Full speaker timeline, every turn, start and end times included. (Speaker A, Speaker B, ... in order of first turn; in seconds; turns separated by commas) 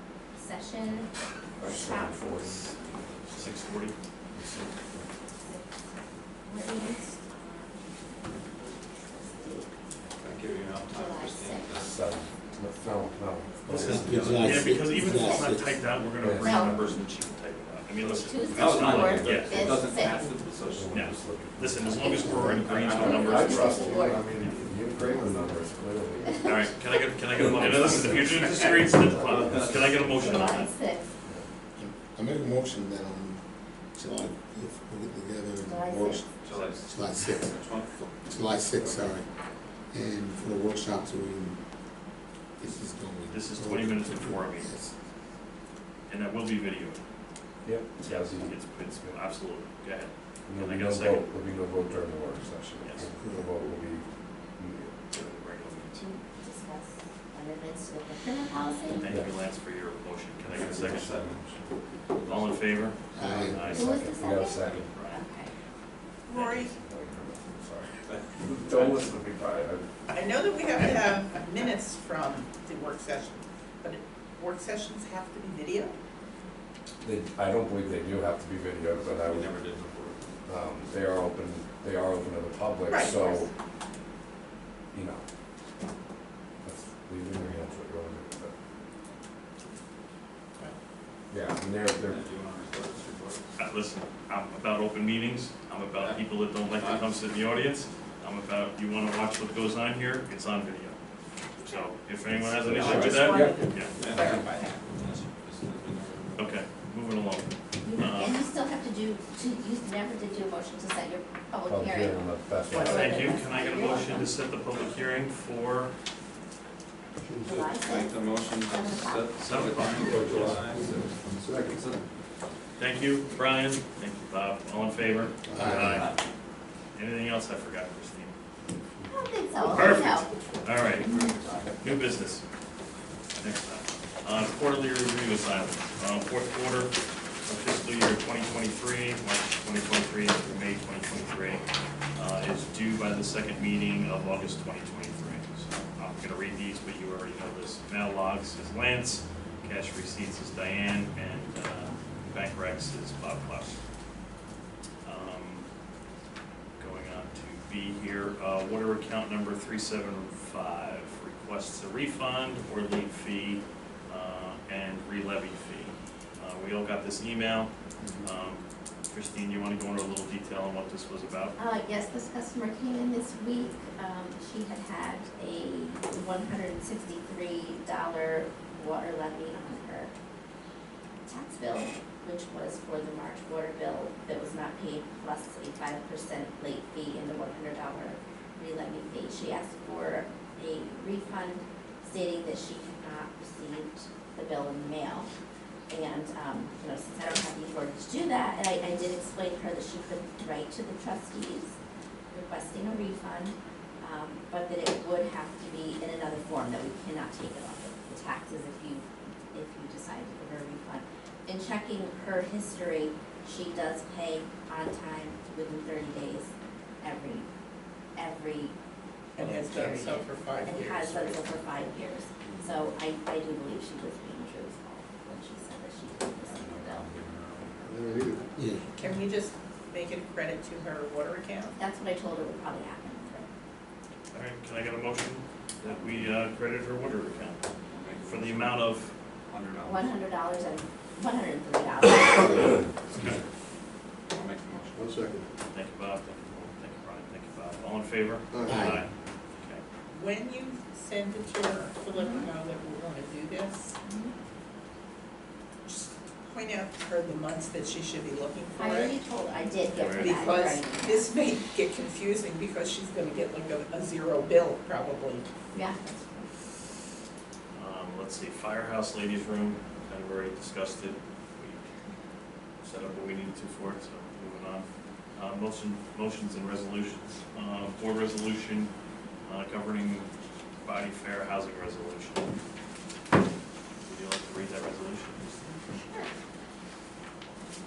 Speaker A: 0.4-1.1, Speaker B: 1.6-3.5, Speaker A: 1.6-2.6, Speaker C: 3.2-4.0, Speaker B: 4.3-5.0, Speaker A: 5.4-5.9, Speaker A: 6.5-9.8, Speaker D: 10.2-12.0, Speaker A: 10.9-12.6, Speaker B: 11.8-14.5, Speaker C: 13.7-19.8, Speaker E: 13.8-15.8, Speaker A: 15.2-15.4, Speaker B: 16.2-16.8, Speaker A: 16.3-17.0, Speaker D: 18.0-21.1, Speaker A: 18.1-20.4, Speaker B: 20.7-26.7, Speaker C: 20.9-24.6, Speaker A: 22.0-24.3, Speaker D: 22.4-23.9, Speaker A: 25.0-25.6, Speaker A: 26.2-26.6, Speaker C: 26.4-30.8, Speaker B: 27.4-30.2, Speaker D: 27.4-30.6, Speaker A: 30.2-31.1, Speaker E: 31.8-33.4, Speaker E: 33.9-39.3, Speaker A: 35.7-36.2, Speaker D: 36.4-38.0, Speaker E: 39.9-41.6, Speaker E: 42.6-45.0, Speaker C: 43.3-44.7, Speaker C: 46.1-47.0, Speaker B: 47.6-49.2, Speaker C: 48.0-51.3, Speaker B: 50.5-54.1, Speaker C: 52.8-53.1, Speaker E: 53.1-53.5, Speaker B: 54.6-55.0, Speaker C: 55.1-56.0, Speaker A: 55.9-59.0, Speaker C: 58.9-61.2, Speaker D: 60.5-62.7, Speaker B: 60.8-61.4, Speaker C: 62.2-65.2, Speaker E: 63.1-63.7, Speaker B: 63.2-64.9, Speaker A: 63.6-65.5, Speaker F: 66.3-66.7, Speaker C: 66.3-66.7, Speaker B: 66.4-69.9, Speaker D: 68.1-69.1, Speaker F: 70.1-76.0, Speaker B: 77.0-79.5, Speaker D: 79.0-80.3, Speaker B: 80.5-83.5, Speaker F: 82.9-83.5, Speaker B: 84.9-85.2, Speaker B: 86.6-88.5, Speaker B: 91.3-92.2, Speaker D: 92.0-93.5, Speaker C: 93.6-101.0, Speaker D: 96.0-97.2, Speaker C: 101.6-104.0, Speaker A: 101.6-101.9, Speaker B: 102.3-104.4, Speaker D: 102.7-103.3, Speaker F: 102.8-103.5, Speaker A: 103.0-103.7, Speaker D: 104.0-106.6, Speaker F: 104.2-104.7, Speaker C: 106.4-108.3, Speaker A: 107.8-114.3, Speaker B: 111.7-113.4, Speaker C: 112.7-115.9, Speaker A: 117.4-119.3, Speaker D: 117.4-122.0, Speaker C: 119.4-120.6, Speaker B: 120.0-121.7, Speaker C: 122.8-126.1, Speaker E: 125.5-126.1, Speaker D: 125.6-126.2, Speaker C: 127.0-128.4, Speaker A: 129.1-130.3, Speaker C: 129.6-131.2, Speaker D: 130.6-132.2, Speaker A: 131.0-131.4, Speaker C: 131.8-132.4, Speaker C: 133.4-153.8, Speaker C: 155.0-155.7, Speaker C: 156.8-171.6, Speaker A: 171.6-180.1, Speaker A: 181.3-195.3, Speaker A: 195.9-201.8, Speaker A: 202.3-217.5, Speaker A: 218.2-218.7, Speaker F: 219.4-221.4, Speaker A: 219.4-227.1, Speaker E: 222.5-222.8, Speaker D: 226.5-228.4, Speaker E: 227.8-228.9, Speaker F: 228.8-231.7, Speaker A: 231.8-233.5, Speaker C: 234.3-237.6, Speaker D: 237.9-238.9, Speaker C: 238.2-239.1, Speaker D: 239.5-240.1, Speaker A: 239.8-242.8, Speaker D: 244.3-245.2, Speaker C: 245.7-249.8, Speaker E: 248.5-249.0, Speaker F: 250.1-253.9, Speaker A: 252.2-252.5, Speaker A: 254.0-254.3, Speaker F: 255.8-259.1, Speaker A: 258.7-261.3, Speaker C: 259.9-260.5, Speaker F: 260.2-265.5, Speaker A: 265.7-266.5, Speaker C: 267.7-271.9, Speaker C: 272.8-278.9, Speaker C: 279.4-280.3, Speaker C: 280.8-282.5, Speaker C: 284.0-285.7